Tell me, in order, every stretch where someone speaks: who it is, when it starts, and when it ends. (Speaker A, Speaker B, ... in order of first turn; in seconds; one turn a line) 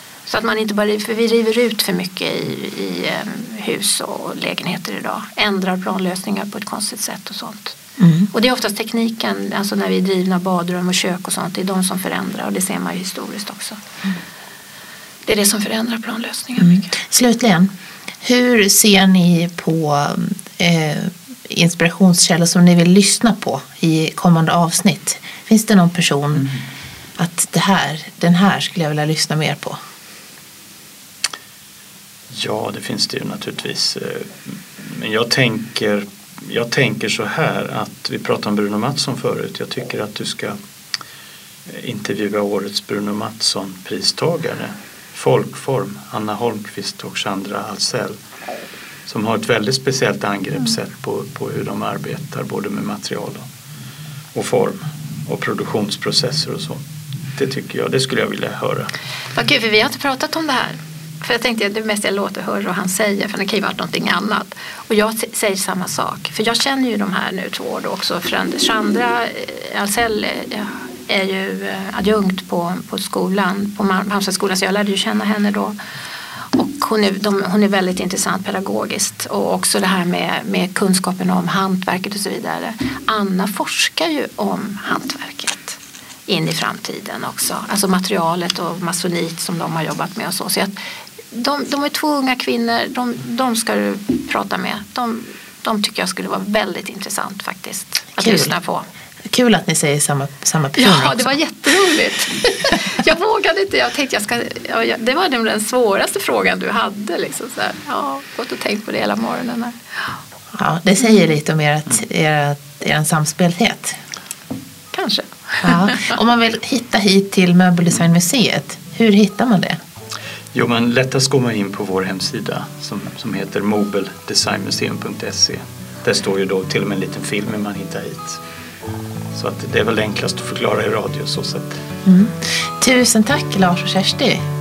Speaker A: 0.3-7.8
Speaker B: 8.0-8.3
Speaker A: 8.3-13.8
Speaker A: 15.3-16.9
Speaker B: 16.6-26.5
Speaker B: 27.2-29.8
Speaker C: 32.3-40.6
Speaker C: 41.6-48.1
Speaker C: 49.1-53.4
Speaker C: 54.3-56.8
Speaker C: 57.3-58.9
Speaker A: 59.3-75.8
Speaker A: 76.5-90.7
Speaker A: 91.3-98.9
Speaker B: 98.2-98.5
Speaker B: 99.3-101.3
Speaker A: 100.8-109.8
Speaker B: 110.5-114.0
Speaker A: 114.9-116.1
Speaker B: 115.6-119.8
Speaker C: 120.5-128.4
Speaker C: 129.3-131.8
Speaker B: 132.0-134.4